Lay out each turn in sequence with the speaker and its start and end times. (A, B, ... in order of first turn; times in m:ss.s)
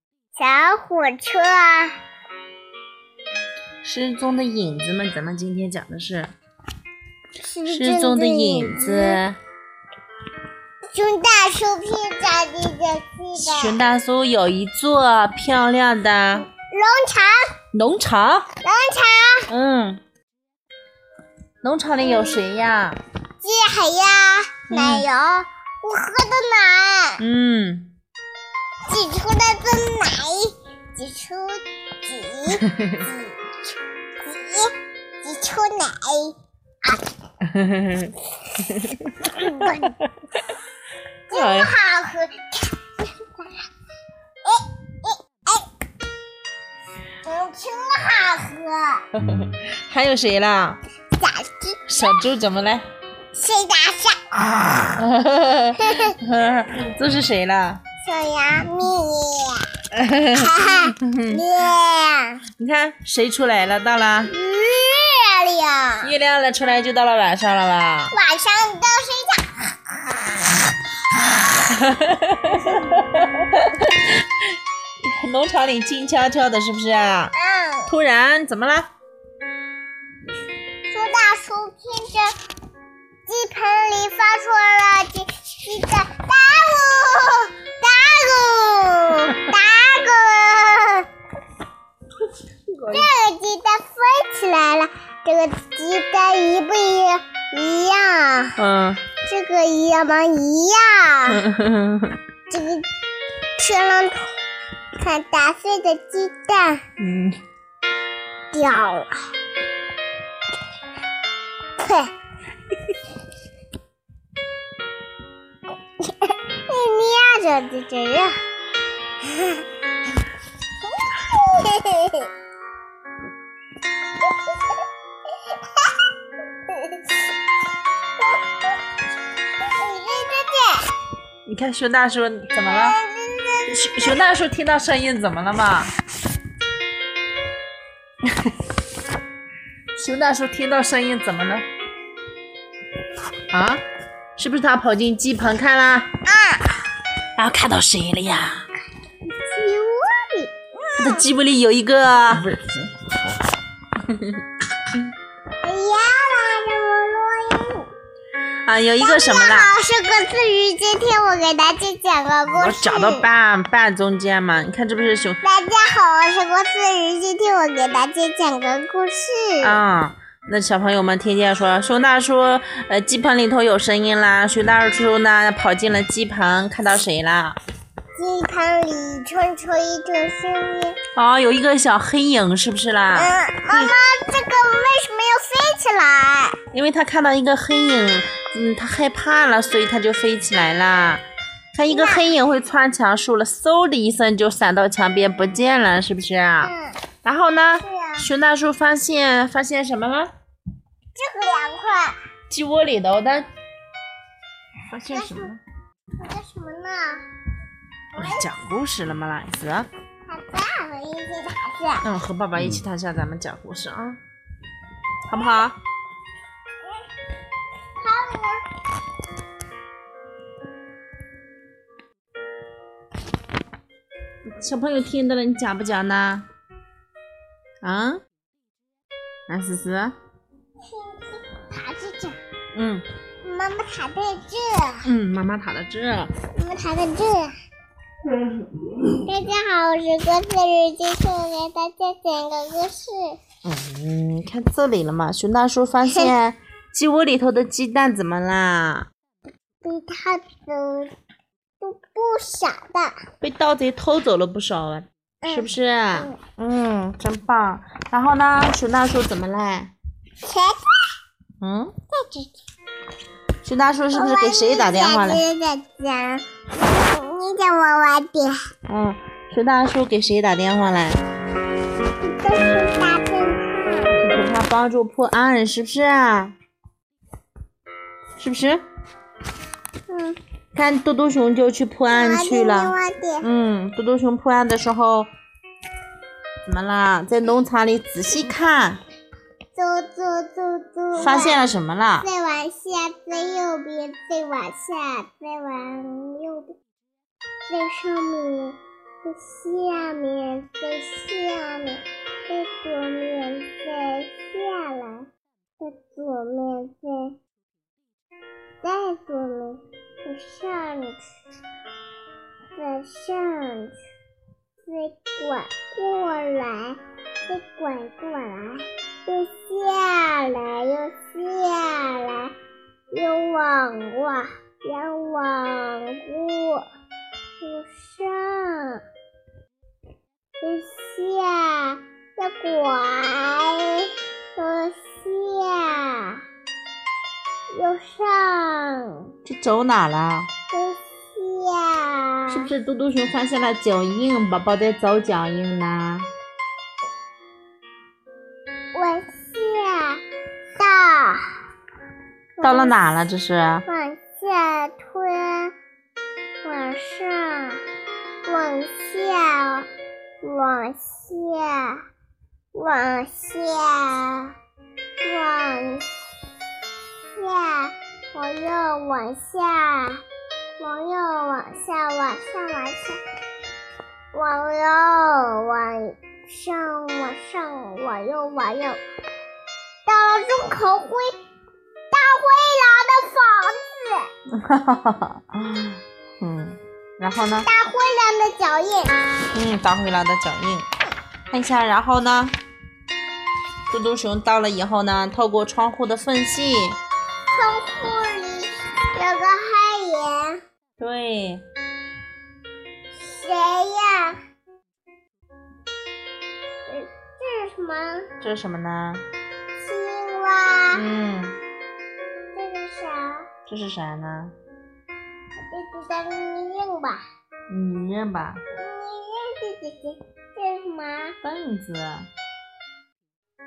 0:00.4-0:01.9 A
0:03.8-0:06.3 B
0:07.4-0:09.2 A
0:07.6-0:09.4 B
0:10.9-0:13.8 A
0:13.4-0:16.5 B
0:16.4-0:17.5 A
0:17.7-0:18.5 B
0:18.6-0:19.5 A
0:19.5-0:20.0 B
0:21.6-0:23.0 B
0:22.0-0:22.4 A
0:23.4-0:27.2 A
0:24.7-0:25.1 B
0:27.2-0:27.9 B
0:28.8-0:33.4 A
0:32.6-0:33.0 B
0:34.2-0:36.3 A
0:37.4-0:40.0 B
0:39.4-0:39.9 A
0:41.3-0:42.9 A
0:41.3-0:41.7 B
0:44.4-0:45.7 A
0:47.2-0:49.0 A
0:49.1-0:50.8 B
0:51.2-0:51.9 A
0:51.8-0:52.9 B
0:53.3-0:54.7 A
0:54.7-0:57.8 B
0:55.8-0:56.1 A
0:58.0-1:02.4 A
0:59.9-1:01.4 B
1:02.6-1:04.3 B
1:04.3-1:06.1 A
1:06.0-1:08.1 B
1:08.1-1:10.1 A
1:11.6-1:14.4 B
1:15.0-1:17.3 B
1:17.3-1:17.9 A
1:17.9-1:18.9 B
1:20.9-1:22.4 A
1:23.2-1:31.1 A
1:32.7-1:33.1 B
1:32.9-1:38.6 A
1:38.6-1:39.0 B
1:39.2-1:41.4 A
1:41.3-1:42.2 B
1:42.5-1:42.9 A
1:43.6-1:44.3 A
1:45.0-1:46.8 A
1:47.0-1:47.4 B
1:48.5-1:49.2 A
1:51.8-1:52.1 A
1:56.0-1:58.4 A
1:59.2-1:59.6 A
2:01.0-2:02.3 A
2:06.7-2:07.1 A
2:09.6-2:10.9 A
2:11.4-2:13.0 B
2:12.6-2:14.2 A
2:13.7-2:15.9 B
2:18.2-2:18.6 B
2:19.9-2:21.6 B
2:23.5-2:23.8 B
2:24.4-2:26.1 B
2:26.3-2:26.7 A
2:27.4-2:28.6 B
2:29.2-2:30.5 A
2:31.0-2:32.8 B
2:34.0-2:34.4 B
2:35.6-2:37.9 A
2:38.6-2:39.7 B
2:39.0-2:43.3 A
2:42.5-2:45.4 B
2:45.4-2:49.8 A
2:49.6-2:57.6 B
2:58.1-3:01.0 A
3:01.1-3:03.9 B
3:03.1-3:06.6 A
3:06.7-3:11.2 B
3:11.7-3:16.7 B
3:11.9-3:12.3 A
3:16.6-3:17.0 A
3:17.2-3:20.3 B
3:17.8-3:18.3 A
3:21.1-3:22.2 A
3:22.5-3:23.5 B
3:24.9-3:25.6 B
3:25.0-3:25.5 A
3:26.2-3:27.2 A
3:28.1-3:29.9 B
3:28.2-3:28.5 A
3:30.3-3:32.1 A
3:32.0-3:34.2 B
3:35.2-3:35.8 B
3:37.9-3:38.6 A
3:44.4-3:46.5 B
3:47.8-3:48.2 B
3:49.5-3:50.2 B
3:50.8-3:52.4 A
3:52.7-3:53.0 B
3:53.4-3:55.1 A
3:55.0-3:56.3 B
3:56.5-3:57.5 A
3:59.2-4:03.4 A
4:03.6-4:09.1 B
4:09.8-4:11.1 A
4:11.8-4:13.1 A
4:13.4-4:19.9 B
4:15.4-4:16.4 A
4:20.4-4:21.0 A
4:21.6-4:21.9 B
4:22.1-4:22.5 A
4:23.6-4:25.4 B
4:24.1-4:28.6 A
4:28.9-4:31.2 B
4:32.2-4:34.2 A
4:34.2-4:36.5 B
4:38.4-4:38.8 B
4:40.1-4:40.4 A
4:40.7-4:45.3 B
4:42.1-4:43.5 A
4:46.6-4:49.0 B
4:49.7-4:51.6 A
4:51.1-4:52.3 B
4:52.2-4:56.7 A
4:57.7-5:05.3 A
5:05.8-5:07.4 A
5:08.8-5:11.2 A
5:12.8-5:13.9 A
5:14.8-5:22.5 A
5:23.1-5:26.9 A
5:27.6-5:29.0 A
5:30.6-5:36.4 A
5:37.7-5:39.3 A
5:39.4-5:40.5 B
5:40.7-5:42.7 A
5:42.5-5:46.3 B
5:48.9-5:50.2 A
5:50.8-5:51.6 A
5:52.6-5:53.2 A
5:52.6-5:53.8 B
5:53.9-5:55.7 A
5:56.6-5:57.8 A
5:58.4-5:59.9 A
6:00.4-6:02.0 A
6:02.7-6:04.5 A
6:05.2-6:06.1 A
6:07.3-6:10.2 A
6:10.8-6:13.2 A
6:14.3-6:19.0 A
6:20.0-6:21.3 A
6:22.1-6:24.3 A
6:24.5-6:27.7 B
6:27.6-6:29.2 A
6:29.5-6:30.9 B
6:31.5-6:32.6 B
6:33.9-6:37.0 B
6:37.5-6:40.6 A
6:41.0-6:41.6 B
6:43.2-6:44.4 A
6:46.8-6:48.3 A
6:48.4-6:49.2 B
6:49.8-6:51.0 A
6:50.9-6:51.6 B
6:52.5-6:53.5 A
6:53.7-6:54.5 B
6:55.6-6:57.2 A
6:57.7-6:58.6 B
6:58.8-7:01.4 A
7:01.4-7:02.3 B